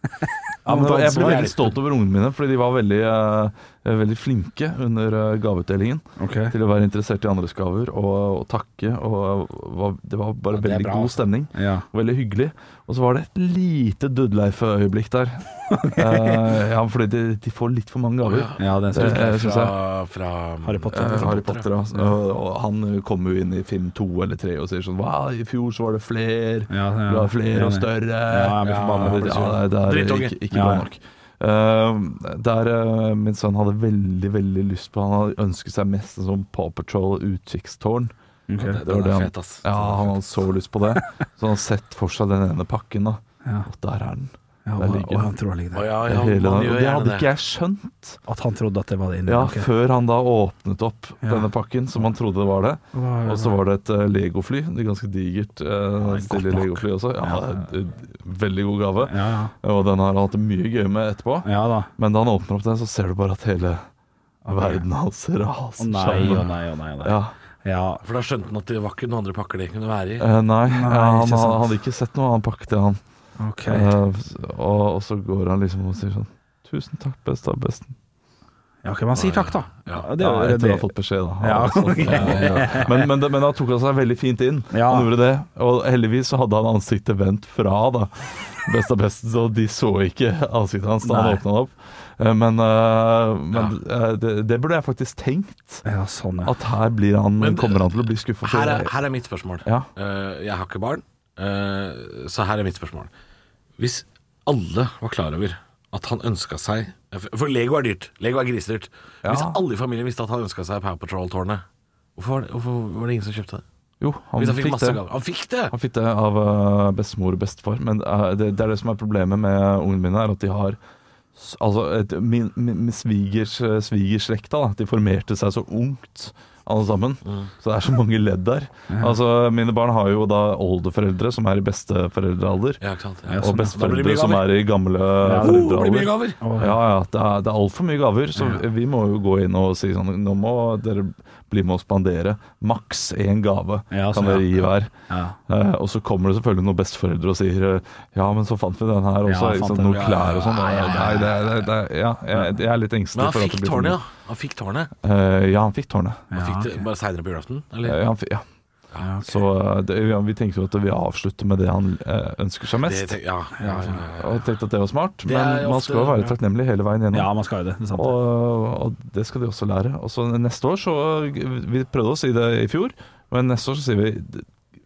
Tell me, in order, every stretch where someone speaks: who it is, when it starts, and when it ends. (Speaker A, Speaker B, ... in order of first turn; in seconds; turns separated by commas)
Speaker A: 0.2-1.5, Speaker B: 0.6-19.7, Speaker C: 1.0-1.7, Speaker A: 6.2-6.5, Speaker C: 10.5-11.2, Speaker A: 11.5-11.8, Speaker A: 15.7-16.4, Speaker C: 18.2-21.6, Speaker A: 18.6-19.4, Speaker A: 20.6-22.1, Speaker B: 20.9-38.1, Speaker A: 26.7-29.6, Speaker C: 28.6-30.4, Speaker A: 30.5-30.8, Speaker A: 38.5-38.8, Speaker C: 38.6-40.2, Speaker B: 38.8-45.3, Speaker A: 44.6-45.9, Speaker C: 45.7-47.3, Speaker B: 46.0-48.2, Speaker A: 48.3-49.7, Speaker B: 49.3-63.8, Speaker A: 52.9-53.6, Speaker A: 56.0-57.6, Speaker A: 59.0-59.5, Speaker A: 61.4-61.9, Speaker A: 64.5-64.8, Speaker B: 64.5-67.3, Speaker A: 65.8-68.0, Speaker C: 68.0-70.2, Speaker B: 70.2-73.0, Speaker A: 70.7-71.6, Speaker A: 73.4-73.9, Speaker B: 73.7-77.9, Speaker A: 78.8-80.9, Speaker C: 79.1-80.0, Speaker B: 80.2-95.8, Speaker A: 81.4-83.1, Speaker C: 82.0-82.8, Speaker A: 84.7-85.1, Speaker A: 91.0-91.4, Speaker C: 93.5-93.8, Speaker A: 95.8-96.5, Speaker B: 96.4-98.9, Speaker C: 97.4-103.1, Speaker C: 103.8-111.6, Speaker B: 109.2-109.6, Speaker C: 112.2-113.6, Speaker B: 114.0-115.0, Speaker C: 114.4-115.7, Speaker B: 115.7-120.8, Speaker B: 121.3-132.8, Speaker A: 128.9-129.1, Speaker C: 132.8-134.5, Speaker A: 133.3-133.8, Speaker B: 133.4-144.9, Speaker A: 135.2-135.7, Speaker C: 135.3-136.4, Speaker A: 136.4-136.8, Speaker A: 138.3-138.6, Speaker A: 143.9-145.4, Speaker B: 145.5-154.0, Speaker A: 149.2-151.3, Speaker C: 149.9-151.4, Speaker C: 153.1-154.9, Speaker B: 155.0-156.3, Speaker A: 156.3-156.8, Speaker C: 156.3-158.0, Speaker B: 157.8-158.4, Speaker A: 159.0-159.4, Speaker B: 159.2-163.2, Speaker C: 162.8-164.4, Speaker A: 163.6-164.0, Speaker B: 164.1-167.3, Speaker C: 165.2-166.4, Speaker A: 167.1-168.2, Speaker B: 167.9-174.4